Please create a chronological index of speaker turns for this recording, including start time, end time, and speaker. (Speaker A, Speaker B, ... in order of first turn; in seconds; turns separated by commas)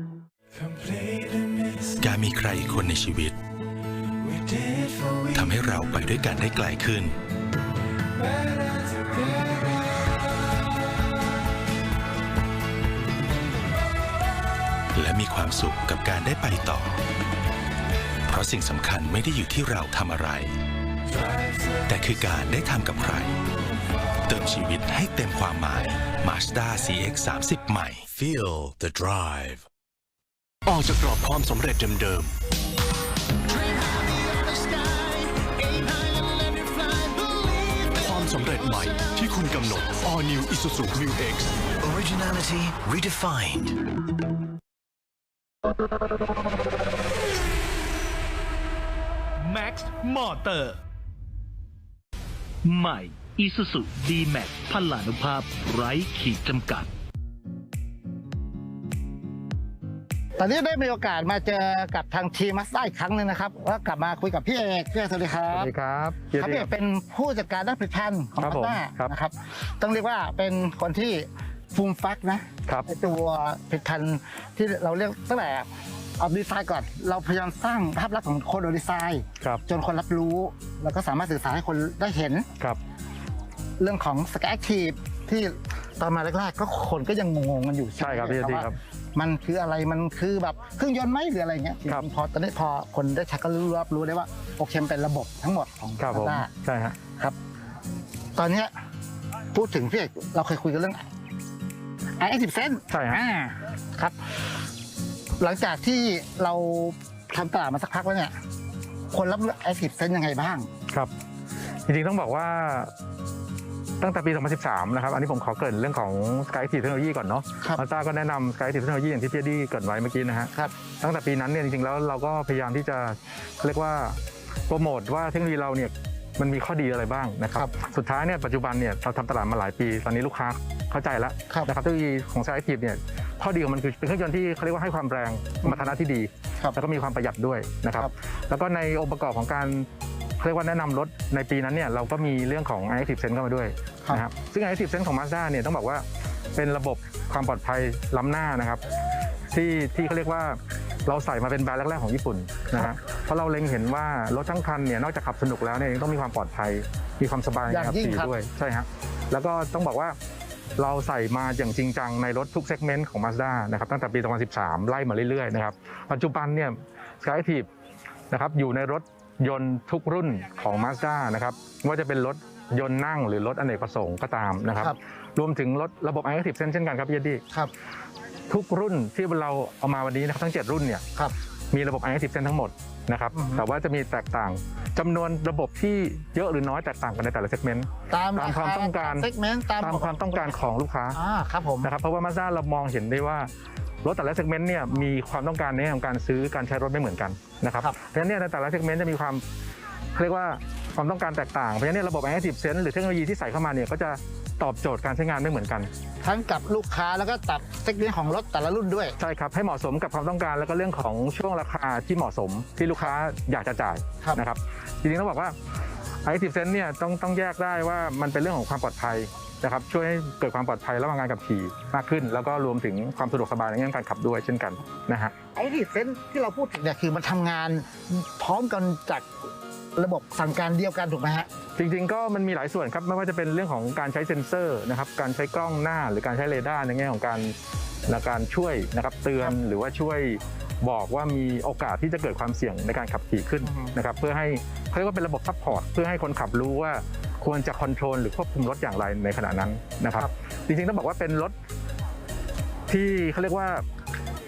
Speaker A: 1.9-3.4, Speaker A: 5.3-7.2, Speaker A: 14.9-17.0, Speaker A: 18.3-20.5, Speaker A: 21.9-23.4, Speaker A: 24.3-28.0, Speaker B: 28.1-29.0, Speaker C: 28.2-29.6, Speaker C: 30.7-32.3, Speaker B: 31.4-32.2, Speaker B: 33.5-38.3, Speaker C: 34.0-34.8, Speaker C: 38.0-41.6, Speaker B: 41.8-43.8, Speaker D: 49.4-50.8, Speaker D: 52.6-56.9, Speaker E: 60.4-65.7, Speaker F: 65.5-66.7, Speaker E: 66.4-75.7, Speaker F: 68.4-69.1, Speaker E: 76.2-82.5, Speaker E: 83.8-96.5, Speaker F: 88.0-88.8, Speaker F: 96.0-97.0, Speaker E: 97.1-97.3, Speaker E: 98.3-98.7, Speaker E: 99.5-101.0, Speaker E: 102.2-104.2, Speaker F: 102.9-103.2, Speaker E: 105.4-108.3, Speaker E: 109.1-110.7, Speaker F: 111.8-112.9, Speaker F: 114.0-139.9, Speaker E: 135.6-135.9, Speaker F: 140.4-146.0, Speaker F: 146.5-148.8, Speaker F: 149.5-160.2, Speaker E: 157.7-158.3, Speaker F: 160.8-167.7, Speaker F: 168.3-177.4, Speaker F: 178.5-181.0, Speaker F: 181.7-189.3, Speaker E: 183.3-183.6, Speaker E: 188.1-190.6, Speaker F: 189.8-191.2, Speaker E: 191.1-191.9, Speaker F: 191.8-193.5, Speaker F: 194.0-199.4, Speaker F: 200.1-205.9, Speaker E: 206.2-209.1, Speaker F: 209.2-215.5, Speaker F: 216.2-225.3, Speaker E: 225.5-229.2, Speaker E: 229.9-231.5, Speaker F: 231.8-237.5, Speaker F: 238.1-251.5, Speaker E: 243.6-243.9, Speaker F: 252.9-253.8